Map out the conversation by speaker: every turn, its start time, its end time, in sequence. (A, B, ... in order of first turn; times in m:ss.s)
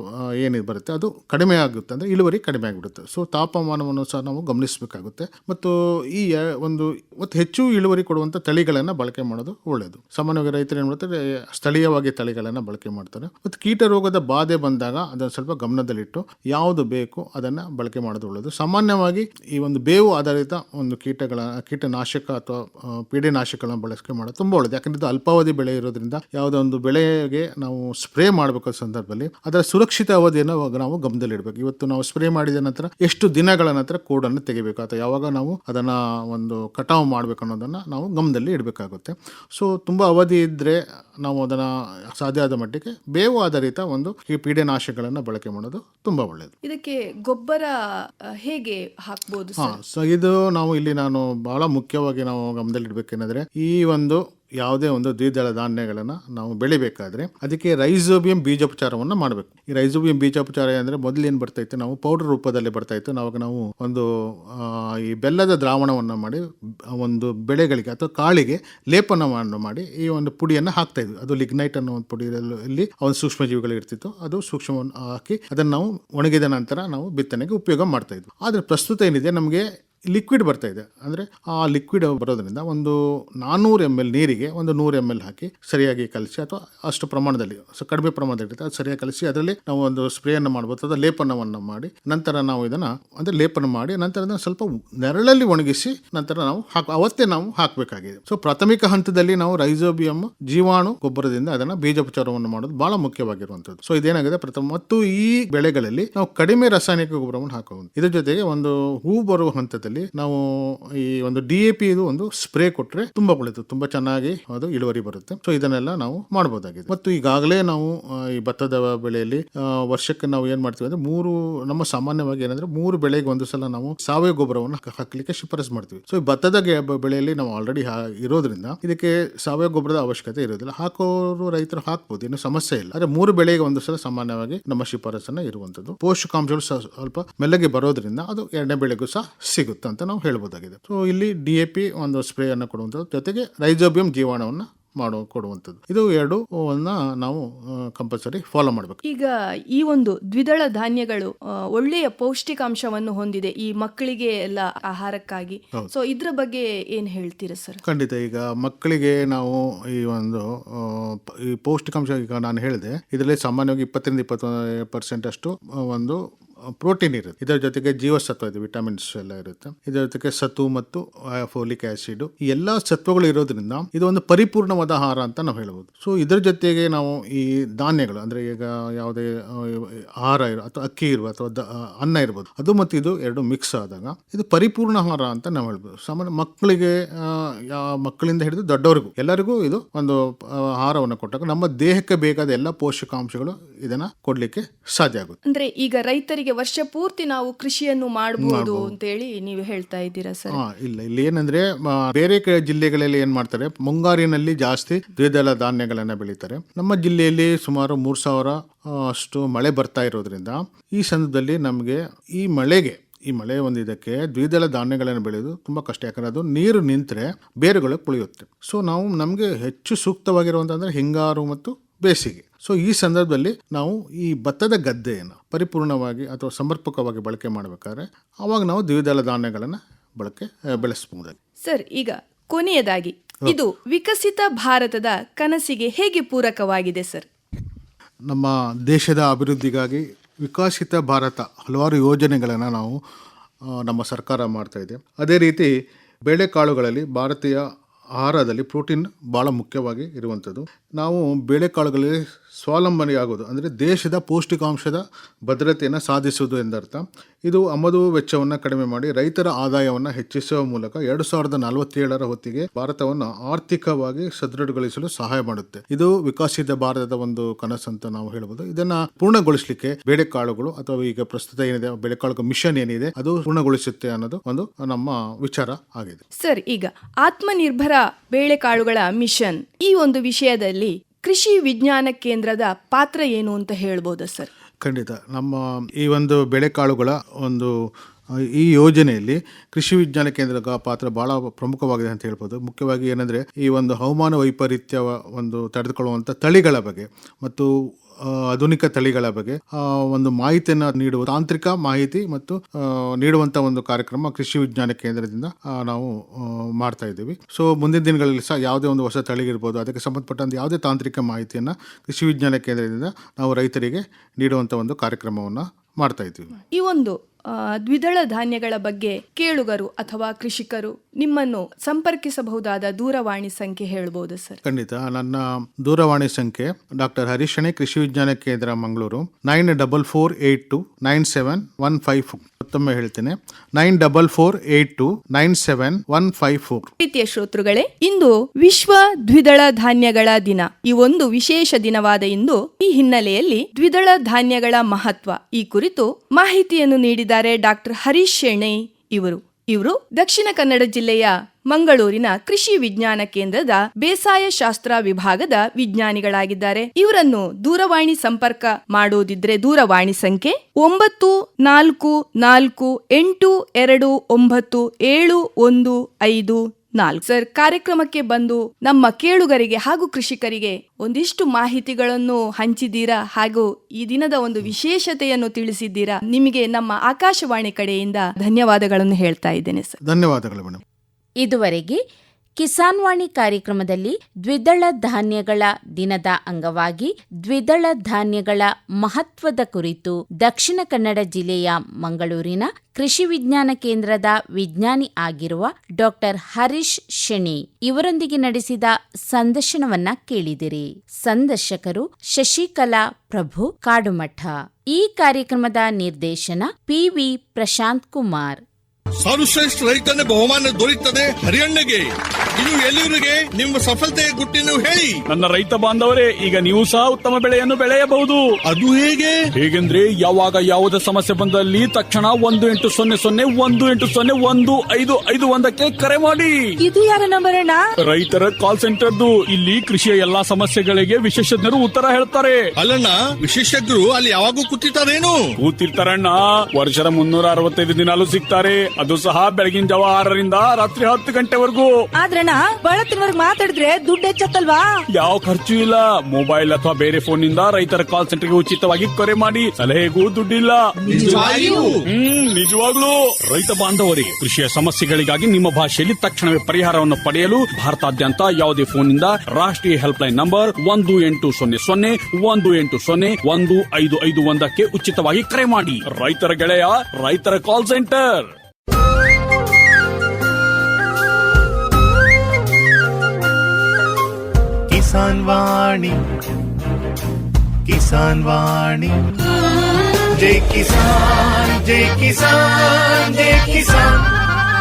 0:00.4-0:46.5 A
0:46.6-0:49.8 B
0:49.6-2:29.0 A
2:29.0-2:37.8 B
2:37.8-2:46.2 A
2:46.8-3:15.4 A
3:15.5-3:20.6 B
3:18.4-3:18.9 A
3:20.5-3:51.4 A
3:51.6-3:57.3 B
3:58.3-4:03.0 A
4:03.7-4:05.7 A
4:06.3-4:07.6 A
4:08.2-4:36.2 A
4:36.4-4:44.5 B
4:44.8-4:47.8 A
4:48.4-5:16.6 A
5:16.7-5:24.6 B
5:24.6-5:36.9 A
5:37.0-6:20.0 B
6:20.0-6:20.8 A
6:21.4-6:22.0 C
6:22.6-6:48.6 C
6:49.2-6:52.1 D
6:52.6-6:55.2 D
6:55.3-6:58.5 E
6:58.7-6:59.4 D
6:59.6-7:06.6 E
7:06.8-7:07.8 F
7:08.1-7:12.6 E
7:12.8-7:15.4 D
7:15.6-7:21.9 E
7:22.2-7:24.8 F
7:25.1-7:30.8 E
7:31.0-7:31.9 F
7:31.1-7:32.0 D
7:32.1-7:48.5 E
7:54.9-7:56.2 G
7:57.9-7:59.2 G
8:00.4-8:04.3 G